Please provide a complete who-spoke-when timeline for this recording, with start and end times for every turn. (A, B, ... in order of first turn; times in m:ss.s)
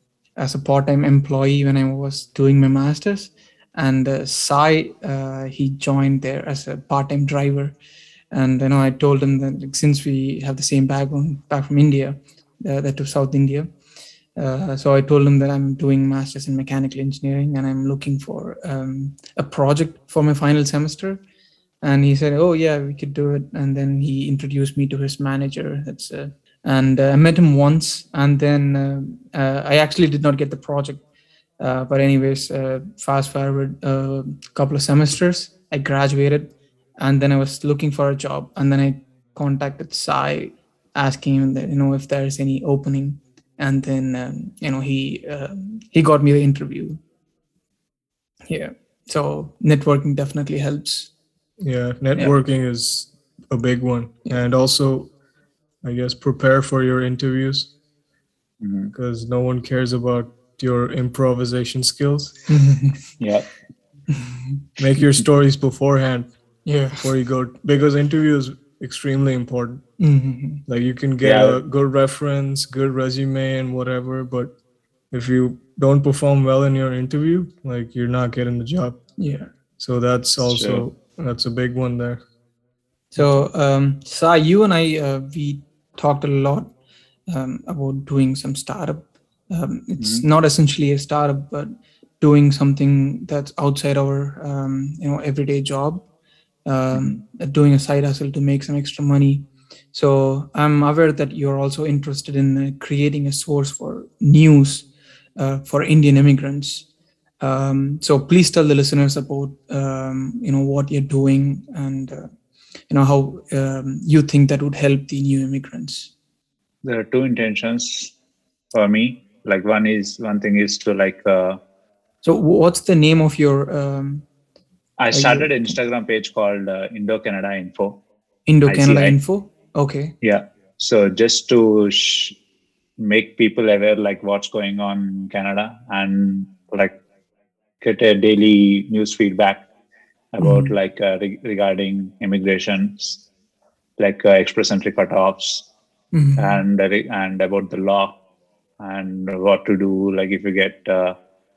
0:00.4-0:07.7 A
0:08.3-0:13.7 A
0:14.4-0:21.2 A
0:21.8-0:31.0 A
0:31.6-0:47.0 A
0:48.5-0:51.1 A
0:51.6-0:55.1 B
0:55.8-0:57.7 B
0:58.6-0:58.9 C
0:58.9-1:02.3 B
1:02.5-1:03.0 A
1:03.2-1:03.5 C
1:04.1-1:05.0 A
1:04.8-1:06.3 B
1:06.6-1:07.1 A
1:07.0-1:09.8 B
1:10.0-1:10.6 A
1:10.7-1:14.5 B
1:11.2-1:11.6 C
1:15.1-1:19.0 B
1:19.2-1:19.5 A
1:19.8-1:22.2 B
1:20.4-1:20.8 C
1:23.1-1:26.7 A
1:27.3-1:36.0 A
1:30.0-1:30.2 C
1:36.6-1:46.9 A
1:36.9-1:37.2 C
1:47.4-1:52.3 A
1:52.9-1:56.1 A
1:56.8-1:58.1 C
1:58.7-2:01.6 C
2:02.2-2:04.3 A
2:05.0-2:08.0 C
2:05.1-2:05.7 A
2:08.5-2:10.1 A
2:08.6-2:09.2 C
2:10.2-2:12.3 C
2:13.0-2:16.9 C
2:17.8-2:19.6 C
2:20.3-2:23.2 C
2:20.4-2:20.7 A
2:24.0-2:25.7 C
2:26.1-2:26.6 A
2:26.4-2:28.1 C
2:28.8-2:31.2 C